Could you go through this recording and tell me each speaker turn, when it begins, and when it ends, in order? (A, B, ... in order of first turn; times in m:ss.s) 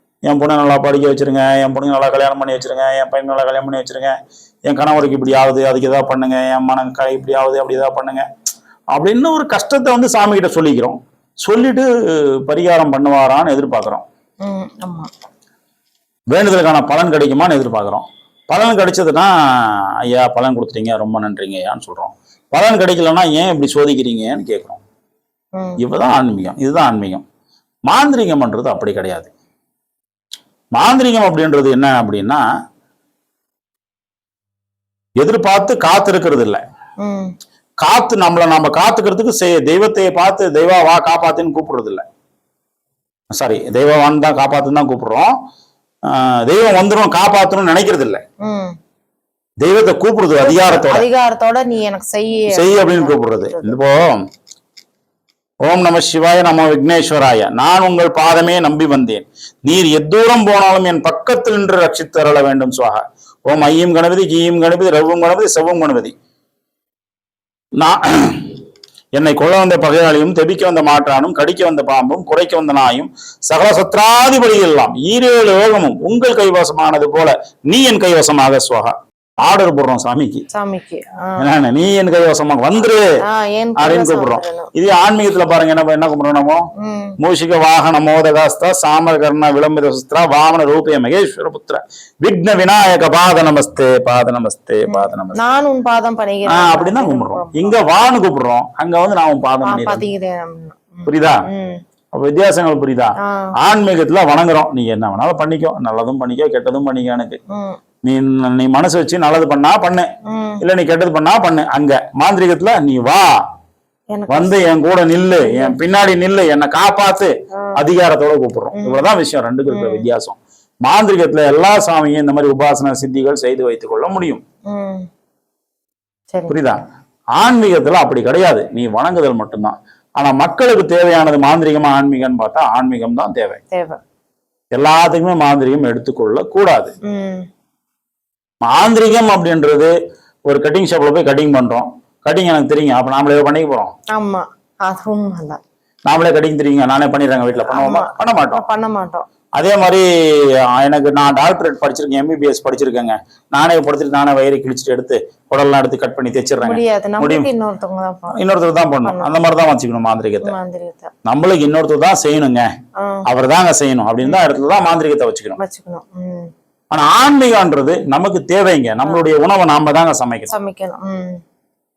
0:00.3-0:08.3 A
0:08.9-0:14.0 A
0:14.4-0:15.1 B
0:16.3-0:24.8 A
0:25.6-0:25.8 B
0:25.8-0:27.2 A
0:27.9-0:29.3 A
0:30.8-0:32.4 A
0:35.2-0:36.6 A
0:37.0-0:37.3 B
0:37.8-0:42.0 A
0:43.3-0:45.3 A
0:46.1-0:48.2 A
0:48.4-0:48.8 B
0:49.6-0:51.1 A
0:50.4-0:53.8 B
0:52.5-0:54.2 A
0:55.6-1:06.2 A
1:07.8-1:08.6 A
1:09.2-1:20.4 A
1:20.5-1:21.5 B
1:21.4-1:23.0 A
1:23.2-1:24.7 B
1:23.8-1:26.7 A
1:26.8-1:27.2 B
1:27.2-1:35.4 A
1:34.9-1:38.0 B
1:36.4-1:40.1 A
1:39.6-1:41.8 B
1:41.1-1:41.4 A
1:42.1-1:47.4 A
1:47.5-1:47.8 B
1:48.0-1:50.1 A
1:50.3-1:50.6 B
1:50.6-1:53.3 A
1:54.1-1:54.7 B
1:54.3-2:04.4 A
1:55.4-1:55.8 B
1:58.8-1:59.1 B
1:59.7-2:00.1 B
2:04.7-2:05.0 B
2:06.5-2:06.8 A
2:07.4-2:13.6 A
2:13.7-2:14.0 B
2:14.8-2:16.9 A
2:17.1-2:17.5 B
2:18.6-2:19.9 A
2:20.5-2:23.9 A
2:24.2-2:25.6 B
2:26.1-2:28.6 A
2:27.7-2:29.3 B
2:29.6-2:37.5 A
2:36.6-2:38.4 B
2:38.3-2:40.6 A
2:39.0-2:39.4 B
2:40.4-2:41.1 B
2:41.2-2:42.7 A
2:43.0-2:43.2 B
2:43.3-2:45.6 A
2:45.6-2:46.5 B
2:46.9-2:50.5 A
2:50.5-2:51.4 B